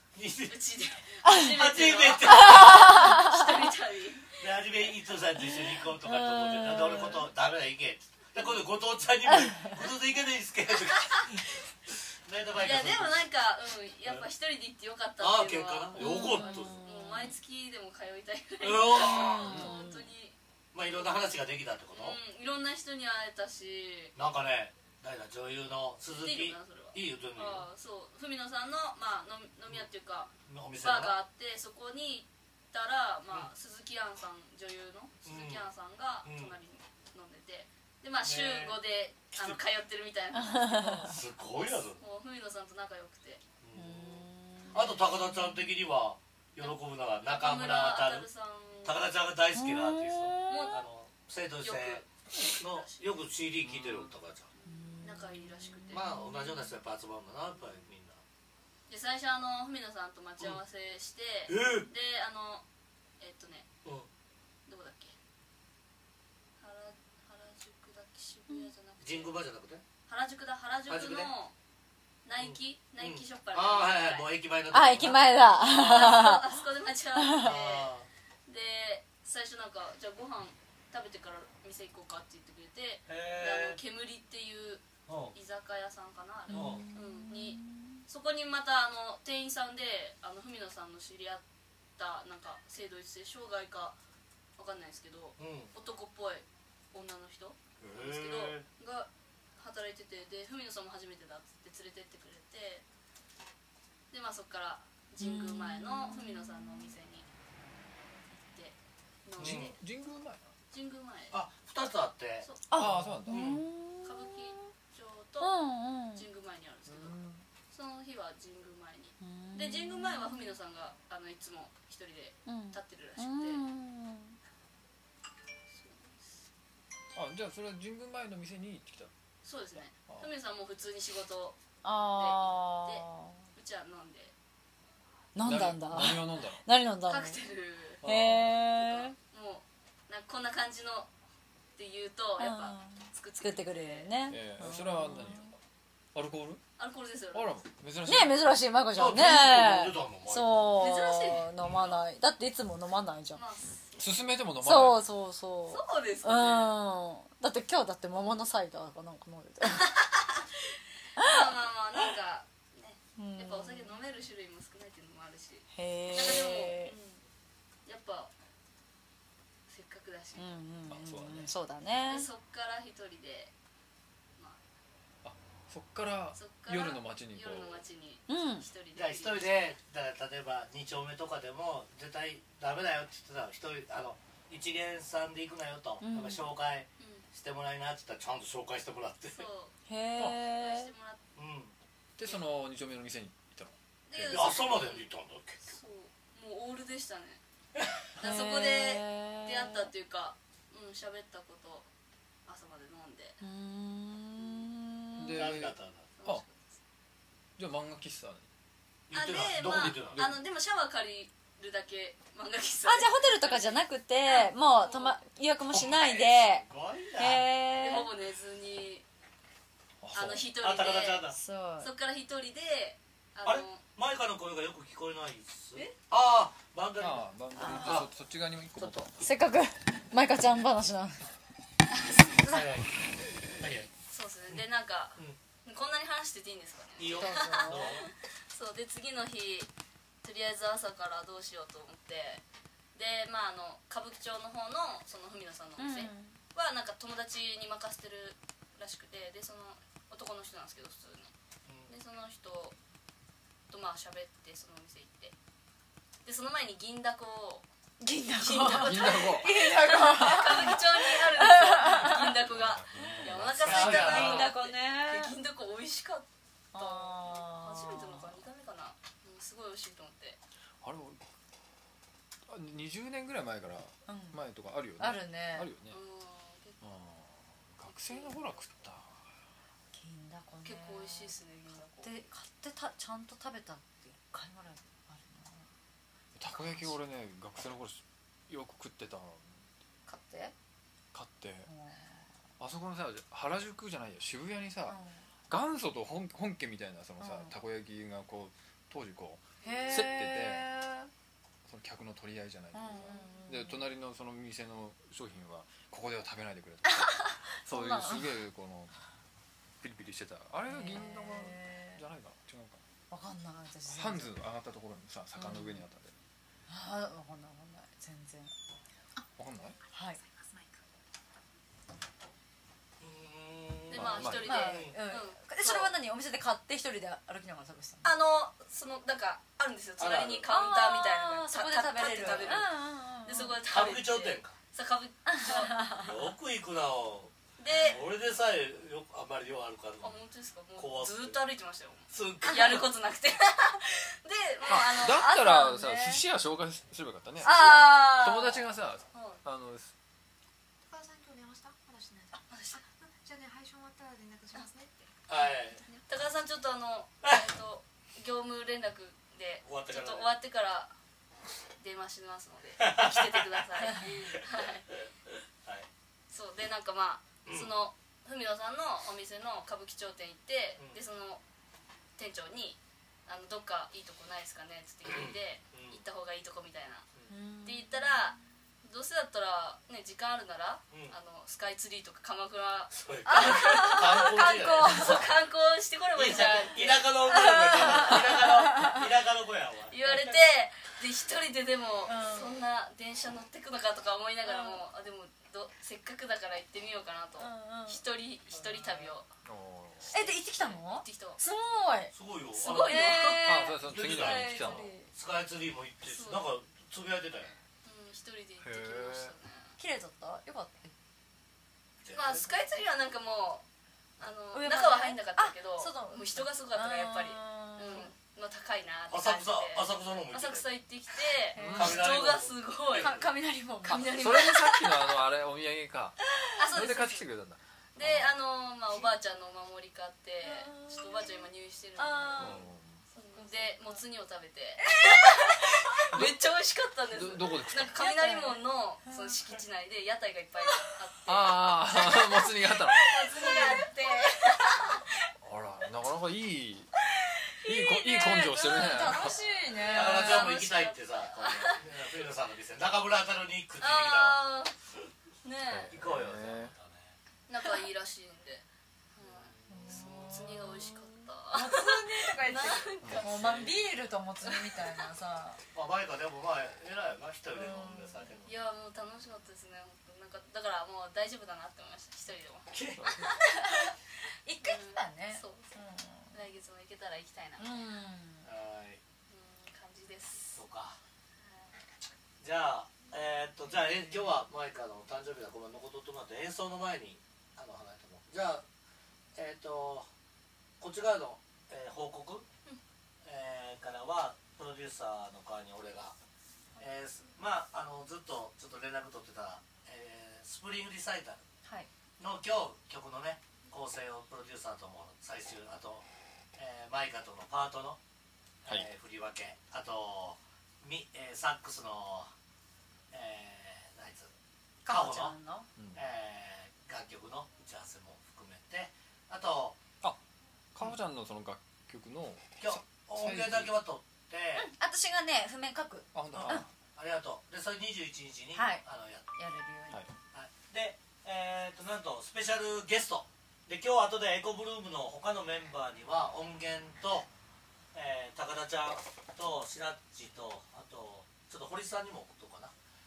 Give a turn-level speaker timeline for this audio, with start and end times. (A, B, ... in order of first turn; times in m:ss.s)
0:00.1-0:00.6 A
0:00.5-0:04.4 B
0:01.2-0:01.5 C
0:01.4-0:03.0 A
0:02.6-0:03.4 C
0:04.4-0:11.6 A
0:06.0-0:07.2 C
0:11.0-0:11.3 B
0:12.2-0:13.2 A
0:12.6-0:20.4 B
0:15.2-0:16.8 A
0:16.0-0:17.3 C
0:18.6-0:19.8 A
0:19.1-0:19.8 C
0:19.5-0:19.8 D
0:20.7-0:22.2 A
0:21.9-0:24.1 B
0:24.2-0:27.7 A
0:26.1-0:43.4 B
0:30.4-0:31.2 A
0:35.2-0:35.6 A
0:36.2-0:36.5 A
0:38.2-0:38.8 A
0:39.3-0:39.6 A
0:40.3-0:41.1 C
0:41.1-0:42.0 A
0:43.6-0:48.3 A
0:43.7-0:44.8 C
0:46.6-0:49.0 B
0:48.8-0:54.5 A
0:49.5-0:50.7 C
0:50.5-0:50.8 B
0:51.6-0:53.0 B
0:54.7-0:55.3 C
0:55.0-0:56.2 B
0:55.9-0:58.2 A
0:58.9-1:02.6 B
1:01.5-1:01.9 A
1:03.2-1:03.7 B
1:04.6-1:05.2 B
1:06.6-1:09.4 B
1:09.0-1:09.8 A
1:10.1-1:11.5 B
1:10.9-1:11.3 A
1:12.2-1:14.3 B
1:12.4-1:15.2 A
1:14.7-1:16.6 C
1:15.6-1:17.9 B
1:17.2-1:17.5 C
1:17.4-1:18.1 A
1:18.5-1:31.4 B
1:23.1-1:23.8 A
1:25.1-1:25.3 A
1:26.5-1:28.0 C
1:26.5-1:26.8 A
1:32.0-1:34.0 B
1:34.6-1:42.8 B
1:35.4-1:35.7 A
1:37.8-1:38.6 A
1:44.1-1:47.3 B
1:45.2-1:46.2 C
1:48.3-1:49.8 B
1:49.4-1:50.4 D
1:49.4-1:49.7 A
1:50.7-1:51.4 B
1:51.3-1:52.5 A
1:52.4-1:52.8 B
1:52.7-1:54.3 C
1:52.7-1:53.4 D
1:53.3-1:53.6 A
1:54.0-1:55.5 B
1:55.4-1:56.2 C
1:56.1-1:57.2 B
1:56.9-1:57.4 D
1:57.7-2:03.6 B
1:59.2-2:00.2 C
2:02.4-2:04.4 C
2:05.7-2:06.4 B
2:07.1-2:09.1 D
2:09.4-2:11.6 B
2:11.8-2:13.4 C
2:12.1-2:14.3 B
2:15.3-2:17.4 C
2:15.4-2:16.6 D
2:17.1-2:18.0 B
2:18.0-2:18.6 D
2:18.0-2:19.2 C
2:18.8-2:21.1 B
2:21.7-2:24.1 B
2:22.4-2:25.5 C
2:24.3-2:25.6 D
2:26.1-2:26.6 D
2:26.8-2:27.6 B
2:27.3-2:28.5 D
2:28.0-2:33.4 C
2:28.9-2:30.8 A
2:30.8-2:32.0 B
2:33.3-2:34.3 B
2:34.0-2:35.0 D
2:34.6-2:39.9 C
2:35.7-2:36.7 B
2:39.7-2:47.2 B
2:41.2-2:41.4 C
2:43.2-2:44.0 C
2:45.7-2:46.9 C
2:47.8-2:48.3 B
2:49.7-2:50.6 B
2:50.4-2:52.3 C
2:50.9-2:51.5 D
2:52.0-2:53.5 B
2:54.4-2:54.6 B
2:55.2-2:57.8 D
2:56.3-2:59.5 B
2:58.3-2:58.7 C
2:58.9-3:09.5 A
3:06.0-3:06.4 C
3:07.0-3:07.2 B
3:09.3-3:09.8 B
3:09.9-3:10.9 C
3:10.5-3:11.2 B
3:11.4-3:11.7 A
3:12.2-3:14.6 D
3:14.1-3:15.0 B
3:14.3-3:15.7 A
3:15.6-3:17.4 B
3:18.2-3:21.9 B
3:18.2-3:19.9 C
3:22.4-3:23.4 B
3:23.4-3:25.5 C
3:24.4-3:24.6 B
3:25.2-3:26.4 D
3:25.3-3:26.1 A
3:26.2-3:26.8 B
3:27.6-3:28.5 D
3:29.1-3:30.3 A
3:29.1-3:33.7 B
3:29.8-3:30.3 D
3:32.8-3:36.6 C
3:34.2-3:35.2 B
3:35.7-3:37.5 A
3:37.2-3:38.1 C
3:37.8-3:39.0 B
3:40.0-3:40.5 D
3:40.1-3:43.8 B
3:40.6-3:41.4 A
3:41.3-3:41.9 C
3:43.4-3:48.1 A
3:47.0-3:49.2 D
3:47.5-3:48.0 C
3:48.8-3:49.1 A
3:49.2-3:51.3 C
3:52.1-3:52.6 C
3:52.5-3:52.9 A
3:53.6-3:53.9 A
3:54.1-3:59.7 B
3:57.0-3:58.1 A
3:57.2-3:58.0 C
4:00.2-4:02.4 B
4:02.9-4:11.3 B
4:05.8-4:06.4 C
4:11.7-4:11.9 A
4:11.9-4:12.8 B
4:13.7-4:15.3 B
4:16.2-4:17.7 B
4:18.0-4:22.3 C
4:18.4-4:30.4 B
4:18.6-4:19.7 D
4:22.4-4:24.5 D
4:23.5-4:24.5 A
4:23.8-4:25.3 C
4:26.7-4:28.4 C
4:30.8-4:31.2 D
4:32.4-4:36.0 D
4:34.1-4:34.4 C
4:35.0-4:35.7 C
4:35.9-4:36.8 B
4:36.8-4:39.3 D
4:37.8-4:38.6 B
4:39.9-4:45.7 C
4:40.6-4:42.1 B
4:46.3-4:49.7 D
4:50.1-4:50.5 C
4:51.1-4:51.7 D
4:51.6-4:52.2 C
4:52.6-4:55.0 D
4:54.8-4:55.3 C
4:55.5-5:00.7 D
4:57.2-4:57.5 C
4:59.6-4:59.9 B
4:59.6-5:01.1 C
5:01.6-5:08.9 D
5:02.7-5:03.8 C
5:06.8-5:08.4 C
5:09.8-5:12.8 D
5:10.6-5:12.0 C
5:13.1-5:14.3 C
5:13.9-5:16.1 D
5:15.4-5:15.8 C
5:16.7-5:18.5 C
5:19.3-5:19.8 D
5:19.9-5:20.2 C
5:23.0-5:25.0 A
5:23.9-5:25.9 B
5:23.9-5:24.5 D
5:24.4-5:28.1 C
5:28.0-5:35.8 B
5:30.0-5:30.4 A
5:30.5-5:33.6 C
5:33.7-5:34.6 A
5:35.2-5:36.1 C
5:36.0-5:37.3 A
5:37.6-5:38.0 B
5:37.9-5:40.2 A
5:40.0-5:45.3 B
5:40.8-5:41.4 A
5:42.1-5:42.9 A
5:44.7-5:49.9 D
5:45.0-5:46.2 C
5:47.4-5:48.6 C
5:47.4-5:48.0 B
5:49.1-5:49.4 B
5:50.9-5:52.3 E
5:52.5-5:52.8 B
5:53.1-5:54.9 E
5:55.3-5:55.9 A
5:56.0-6:00.9 B
5:59.6-6:00.3 A
6:01.8-6:04.8 B
6:02.8-6:05.9 A
6:03.8-6:04.2 C
6:06.3-6:11.4 B
6:07.4-6:07.7 A
6:12.2-6:17.1 B
6:15.1-6:16.0 A
6:17.3-6:17.8 C
6:17.6-6:28.4 B
6:20.9-6:21.2 A
6:22.9-6:25.3 A
6:23.3-6:25.2 C
6:26.1-6:30.4 A
6:26.3-6:29.0 C
6:29.9-6:39.3 B
6:32.0-6:32.6 C
6:34.4-6:34.8 C
6:37.4-6:38.0 C
6:38.5-6:39.1 A
6:39.4-6:40.1 D
6:40.0-6:41.4 B
6:40.1-6:42.1 C
6:42.1-6:43.1 A
6:42.6-6:43.5 B
6:42.8-6:45.1 C
6:43.4-6:44.9 D
6:43.9-6:47.5 A
6:46.1-6:46.4 B
6:47.8-6:49.8 B
6:48.6-6:49.3 D
6:49.8-6:50.9 C
6:52.0-6:52.5 A
6:52.1-6:53.6 B
6:54.2-7:03.1 B
6:54.5-6:58.1 C
6:59.1-7:00.7 A
7:01.5-7:02.0 C
7:01.6-7:02.2 D
7:01.7-7:03.2 A
7:02.9-7:05.0 C
7:03.8-7:04.7 B
7:03.9-7:06.2 D
7:06.6-7:07.3 B
7:06.7-7:08.4 D
7:08.0-7:22.5 B
7:10.4-7:11.3 C
7:12.0-7:14.0 C
7:12.4-7:13.0 D
7:14.8-7:16.1 C
7:17.1-7:18.0 D
7:17.9-7:19.1 C
7:21.2-7:23.1 D
7:21.9-7:25.3 C
7:23.0-7:25.0 B
7:25.4-7:26.9 D
7:27.1-7:31.0 C
7:27.6-7:29.4 D
7:28.6-7:29.3 B
7:29.9-7:34.4 A
7:30.0-7:31.8 B
7:33.8-7:34.7 B
7:35.4-7:35.9 B
7:35.6-7:36.7 D
7:35.9-7:37.2 A
7:37.5-7:43.6 B
7:39.2-7:40.3 A
7:39.7-7:40.9 C
7:41.5-7:45.6 C
7:43.0-7:43.4 D
7:43.1-7:43.8 A
7:45.7-7:48.6 A
7:47.5-7:48.3 C
7:48.4-7:53.9 B
7:52.7-7:53.0 A
7:53.0-7:53.4 D
7:53.4-7:53.9 C
7:54.4-7:56.4 C
7:54.6-7:55.7 B
7:56.3-7:57.8 B
7:57.6-7:58.4 C
7:58.4-7:59.0 A
7:59.3-8:00.6 B
8:00.5-8:01.0 A
8:01.4-8:01.7 B
8:02.4-8:08.6 A
8:09.3-8:10.1 A
8:10.8-8:12.4 A
8:13.2-8:16.2 A
8:16.8-8:21.4 A
8:22.2-8:26.0 A
8:26.6-8:28.0 A
8:28.6-8:32.3 A
8:33.1-8:34.3 A
8:34.8-8:35.7 C
8:34.9-8:35.3 A
8:35.8-8:36.0 D
8:35.9-8:39.8 A
8:40.7-8:43.7 D
8:42.6-8:44.7 A
8:44.6-8:46.6 C
8:46.1-8:46.7 D
8:46.3-8:49.2 A
8:48.5-8:48.8 C
8:49.3-8:50.0 C
8:50.3-8:57.3 A
8:57.9-9:02.7 A